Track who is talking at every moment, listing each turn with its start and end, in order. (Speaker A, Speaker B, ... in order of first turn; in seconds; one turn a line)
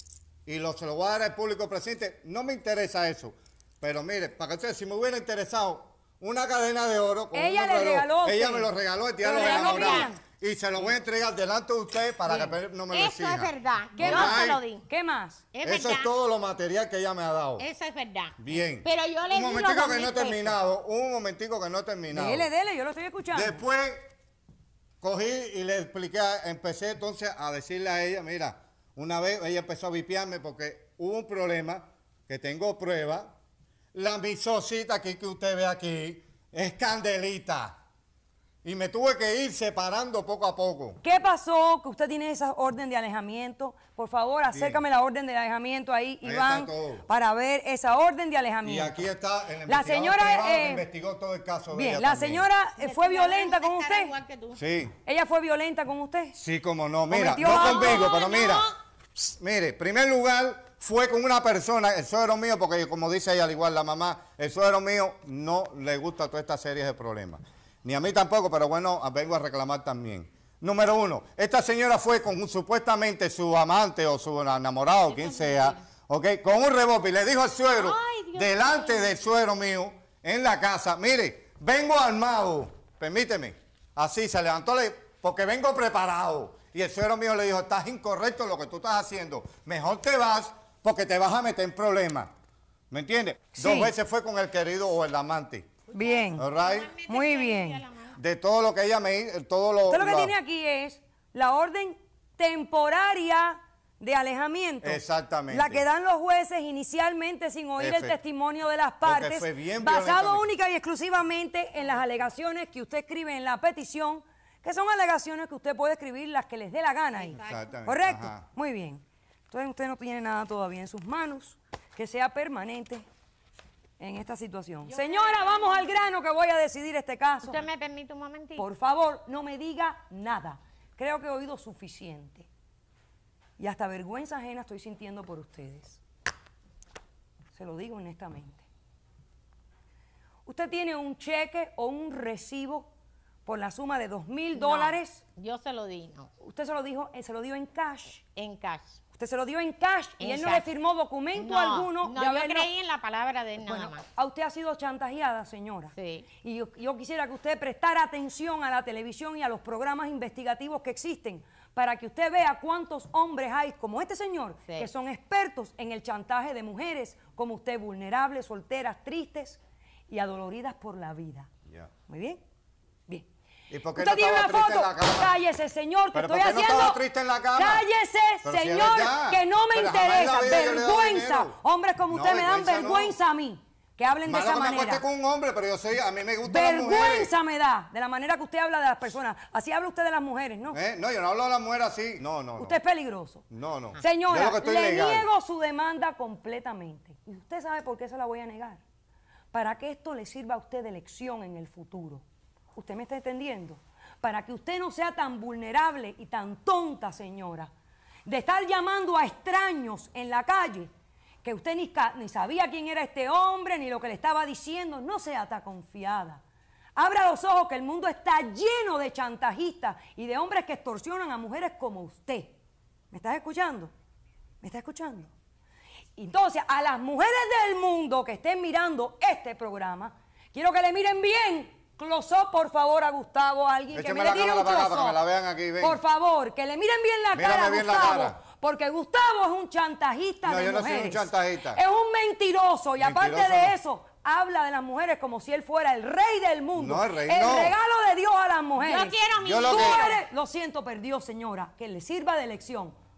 Speaker A: 0.5-14.6
Speaker B: 7.3-10.2
Speaker C: 9.3-10.1
Speaker B: 12.2-12.5
Speaker C: 12.9-14.8
Speaker B: 14.0-15.4
Speaker C: 15.5-16.1
Speaker A: 15.6-17.6
Speaker C: 17.6-20.6
Speaker A: 18.4-22.5
Speaker B: 22.1-23.6
Speaker A: 23.3-24.0
Speaker A: 25.0-33.3
Speaker A: 33.9-37.8
Speaker A: 38.6-41.0
Speaker B: 41.0-49.0
Speaker A: 44.5-44.8
Speaker A: 46.2-47.0
Speaker A: 48.6-52.5
Speaker B: 49.6-50.8
Speaker B: 51.7-54.1
Speaker C: 52.8-54.6
Speaker A: 54.5-54.9
Speaker B: 55.0-56.3
Speaker A: 56.4-58.6
Speaker B: 57.1-58.4
Speaker C: 57.4-58.7
Speaker A: 59.2-92.3
Speaker C: 75.0-75.8
Speaker C: 77.7-79.2
Speaker A: 92.9-95.7
Speaker B: 93.5-93.9
Speaker C: 95.9-98.2
Speaker B: 95.9-96.5
Speaker A: 96.4-96.9
Speaker B: 97.1-97.8
Speaker A: 98.2-100.3
Speaker B: 99.9-123.0
Speaker A: 104.8-105.8
Speaker A: 107.8-108.2
Speaker A: 109.0-110.5
Speaker C: 117.2-117.8
Speaker A: 117.3-118.4
Speaker B: 124.0-127.6
Speaker C: 125.0-125.6
Speaker C: 127.4-128.7
Speaker B: 128.6-132.5
Speaker B: 133.6-136.0
Speaker B: 137.5-138.6
Speaker B: 140.4-142.9
Speaker B: 143.4-145.2
Speaker C: 144.5-146.3
Speaker B: 146.4-148.2
Speaker C: 148.2-149.0
Speaker B: 149.1-152.7
Speaker C: 150.2-150.7
Speaker C: 151.3-154.0
Speaker B: 153.6-171.5
Speaker C: 155.9-156.3
Speaker B: 172.1-172.4
Speaker A: 173.7-175.3
Speaker B: 173.9-177.0
Speaker A: 176.1-177.8
Speaker B: 177.5-185.0
Speaker A: 178.4-181.6
Speaker A: 182.1-183.1
Speaker A: 184.2-187.3
Speaker B: 186.4-190.8
Speaker A: 190.7-192.8
Speaker B: 192.6-193.4
Speaker A: 193.5-195.3
Speaker B: 194.0-198.8
Speaker B: 199.5-202.2
Speaker B: 202.7-207.7
Speaker B: 208.2-210.9
Speaker B: 211.4-216.4
Speaker B: 216.9-222.6
Speaker B: 223.1-223.9
Speaker B: 224.6-225.3
Speaker B: 226.2-235.2
Speaker A: 233.9-236.0
Speaker B: 235.8-252.9
Speaker A: 237.3-238.4
Speaker A: 240.4-241.8
Speaker A: 243.0-243.7
Speaker A: 246.8-247.7
Speaker C: 248.8-250.2
Speaker A: 249.4-250.1